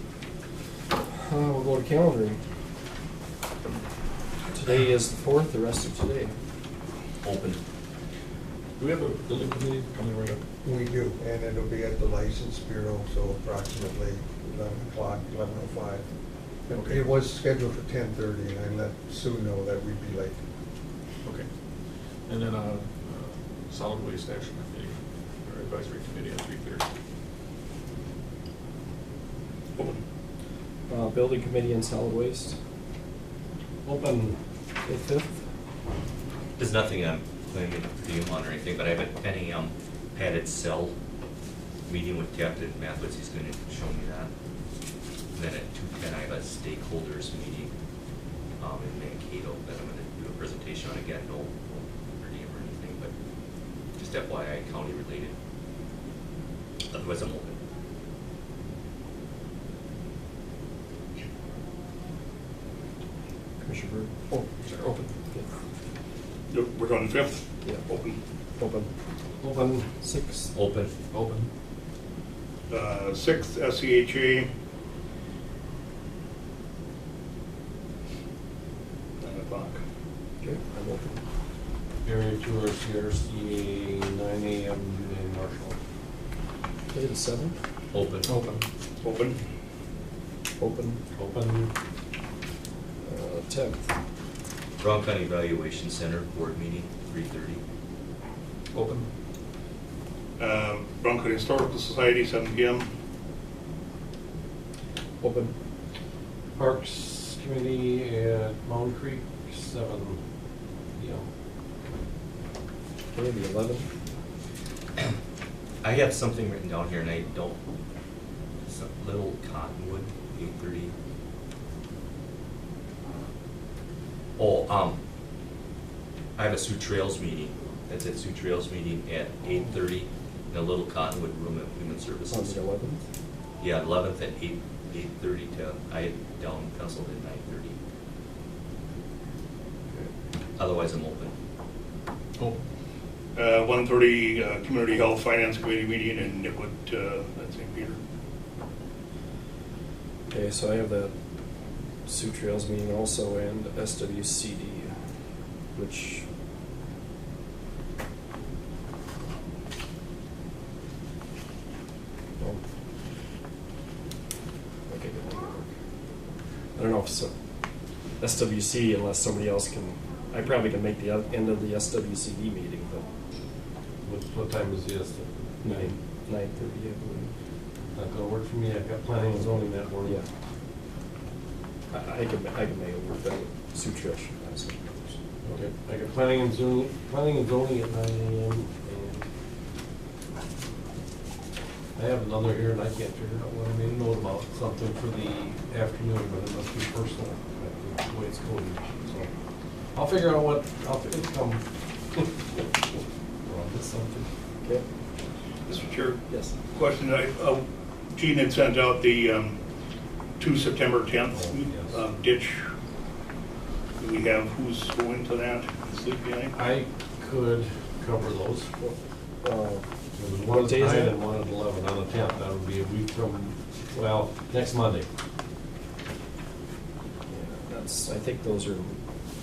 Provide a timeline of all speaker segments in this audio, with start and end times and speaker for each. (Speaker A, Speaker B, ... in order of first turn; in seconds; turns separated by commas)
Speaker A: 1.1-2.4, Speaker A: 4.5-6.3, Speaker B: 7.2-7.6, Speaker C: 8.8-10.4, Speaker D: 10.6-16.0, Speaker D: 16.7-20.4, Speaker C: 22.3-24.9, Speaker C: 25.4-26.8, Speaker A: 30.9-32.6, Speaker E: 33.8-34.4, Speaker A: 34.8-35.4, Speaker B: 36.6-40.9, Speaker B: 41.9-44.3, Speaker B: 45.3-47.7, Speaker B: 48.6-53.1, Speaker B: 54.0-55.3, Speaker B: 56.9-57.6, Speaker A: 63.6-64.1, Speaker C: 64.3-65.1, Speaker F: 66.5-68.2, Speaker A: 68.6-68.9, Speaker E: 69.4-69.9, Speaker A: 70.0-70.5, Speaker B: 70.5-70.9, Speaker C: 71.1-71.5, Speaker F: 72.7-74.5, Speaker F: 79.2-79.8, Speaker A: 80.4-81.2, Speaker E: 82.0-85.8, Speaker A: 86.9-87.5, Speaker B: 87.9-88.3, Speaker C: 88.2-88.6, Speaker F: 89.0-89.4, Speaker A: 90.6-91.0, Speaker E: 91.2-91.7, Speaker A: 93.0-93.9, Speaker B: 94.8-97.6, Speaker C: 98.8-99.1, Speaker F: 100.4-102.9, Speaker A: 105.2-105.5, Speaker E: 106.5-110.2, Speaker E: 111.0-111.3, Speaker A: 113.1-113.9, Speaker B: 115.8-117.6, Speaker B: 118.6-120.9, Speaker B: 124.4-125.0, Speaker B: 126.4-132.6, Speaker A: 132.3-133.0, Speaker B: 133.6-137.8, Speaker B: 140.6-141.3, Speaker F: 143.3-148.0, Speaker A: 150.3-151.1, Speaker A: 152.1-154.9, Speaker A: 155.8-156.3, Speaker A: 164.9-165.7, Speaker A: 166.8-167.3, Speaker A: 168.2-173.1, Speaker E: 174.0-175.9, Speaker A: 175.6-177.3, Speaker E: 177.9-180.2, Speaker A: 181.9-185.2, Speaker E: 185.4-189.3, Speaker E: 192.0-199.3, Speaker E: 199.9-202.8, Speaker E: 203.4-204.3, Speaker F: 205.7-207.6, Speaker A: 206.3-206.5, Speaker F: 208.2-209.6, Speaker F: 210.4-212.7, Speaker E: 211.3-212.0, Speaker F: 214.0-216.5, Speaker E: 216.5-219.0, Speaker A: 219.4-219.8, Speaker E: 220.2-225.1, Speaker A: 220.6-221.2, Speaker A: 227.3-229.0